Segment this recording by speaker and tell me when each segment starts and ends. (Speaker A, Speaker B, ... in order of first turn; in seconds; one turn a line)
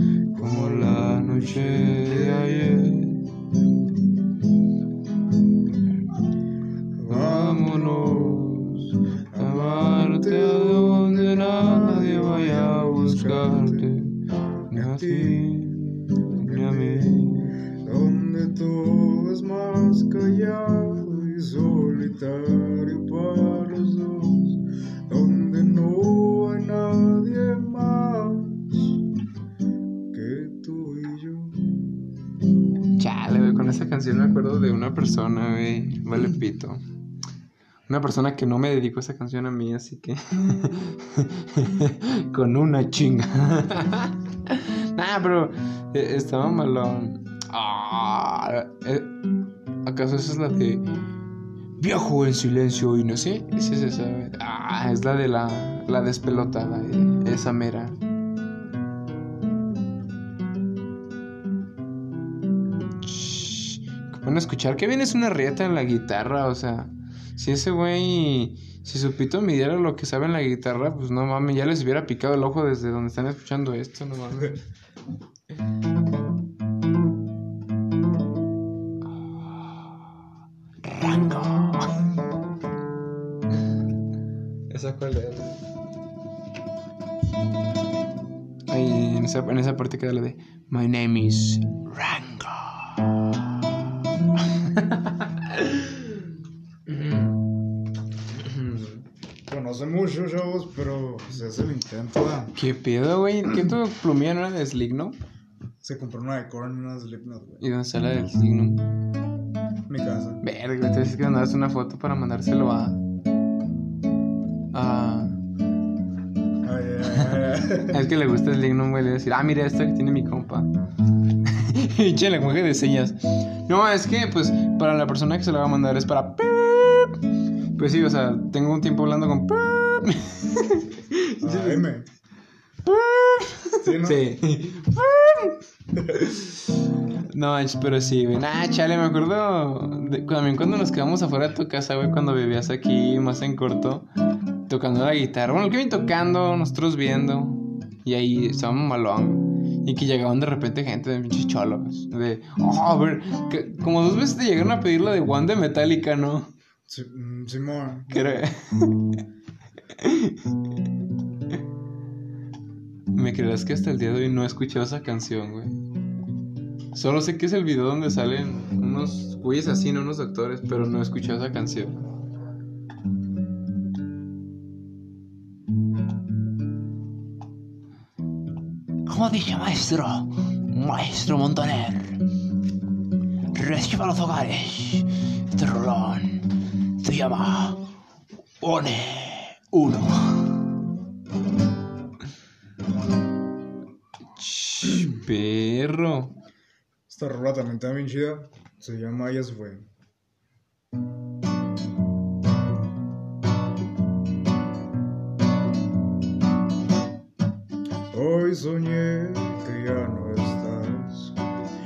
Speaker A: 0.3-2.7
Speaker B: 0.4-3.2
Speaker A: 7.0-8.7
Speaker B: 7.1-17.6
Speaker A: 9.3-13.9
Speaker A: 14.7-15.6
Speaker A: 16.2-28.9
Speaker A: 30.1-31.7
Speaker B: 33.0-36.8
Speaker B: 37.9-49.2
Speaker B: 49.8-50.8
Speaker B: 51.8-58.0
Speaker B: 63.0-74.6
Speaker B: 79.4-79.8
Speaker B: 80.8-82.0
Speaker B: 84.7-85.6
Speaker B: 88.7-93.1
Speaker B: 94.5-96.2
Speaker B: 96.9-97.4
Speaker B: 98.3-99.0
Speaker A: 99.5-102.5
Speaker B: 102.5-105.2
Speaker A: 105.8-107.6
Speaker B: 107.6-109.0
Speaker A: 109.9-110.4
Speaker B: 110.4-113.0
Speaker B: 114.7-115.4
Speaker A: 116.6-118.0
Speaker B: 117.9-120.7
Speaker B: 121.4-127.2
Speaker B: 127.8-131.9
Speaker A: 131.4-132.1
Speaker B: 132.8-144.1
Speaker A: 133.8-134.2
Speaker B: 144.7-156.5
Speaker A: 156.9-158.4
Speaker B: 158.1-159.2
Speaker B: 160.0-160.5
Speaker B: 163.1-165.7
Speaker B: 166.9-172.0
Speaker B: 179.1-182.2
Speaker B: 183.5-187.8
Speaker B: 188.6-190.6
Speaker B: 194.4-196.3
Speaker A: 197.1-199.9
Speaker A: 208.1-211.4